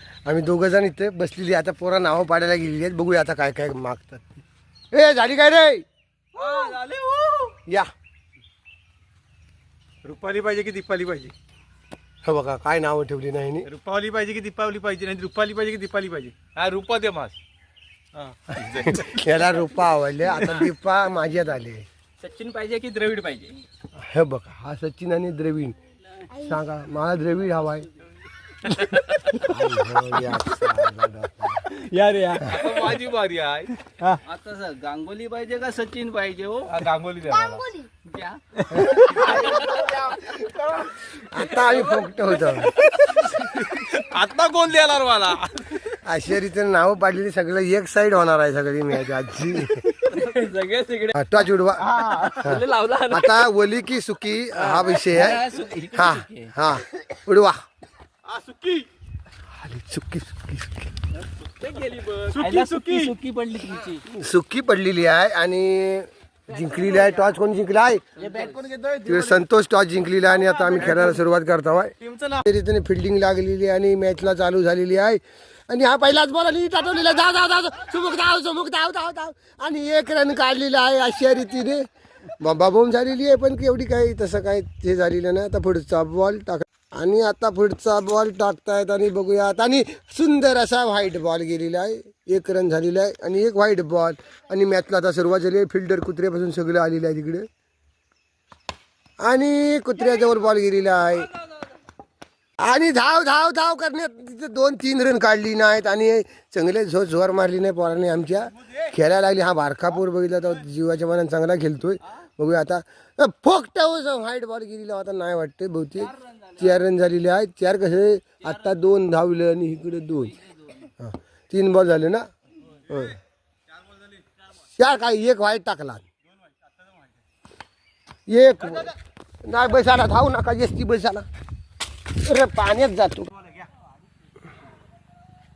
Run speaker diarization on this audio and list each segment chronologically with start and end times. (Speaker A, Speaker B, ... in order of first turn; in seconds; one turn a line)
Speaker A: 0.2-4.2
Speaker A: 4.9-5.8
Speaker B: 6.3-7.6
Speaker B: 10.0-11.3
Speaker A: 12.2-13.7
Speaker B: 13.7-17.4
Speaker B: 18.1-19.2
Speaker A: 18.8-21.9
Speaker C: 22.2-23.6
Speaker A: 23.9-25.8
Speaker A: 26.3-27.9
Speaker A: 29.3-31.7
Speaker C: 31.8-32.6
Speaker B: 32.4-33.9
Speaker C: 34.1-36.8
Speaker B: 36.6-37.8
Speaker C: 38.0-40.7
Speaker B: 38.7-39.6
Speaker A: 41.2-42.7
Speaker C: 41.3-43.2
Speaker B: 42.9-46.0
Speaker A: 45.9-49.9
Speaker C: 49.9-51.1
Speaker A: 51.1-57.6
Speaker C: 51.9-53.4
Speaker C: 54.6-56.5
Speaker B: 58.3-58.9
Speaker A: 59.5-60.9
Speaker C: 61.6-64.0
Speaker B: 62.1-63.1
Speaker A: 64.1-68.0
Speaker C: 68.2-68.7
Speaker B: 68.2-69.4
Speaker A: 69.0-81.8
Speaker B: 70.3-71.2
Speaker B: 72.0-72.4
Speaker A: 82.4-97.5
Speaker A: 99.2-101.3
Speaker A: 102.6-123.2
Speaker C: 120.5-120.8
Speaker A: 124.8-126.0
Speaker A: 128.3-131.3
Speaker A: 132.1-133.5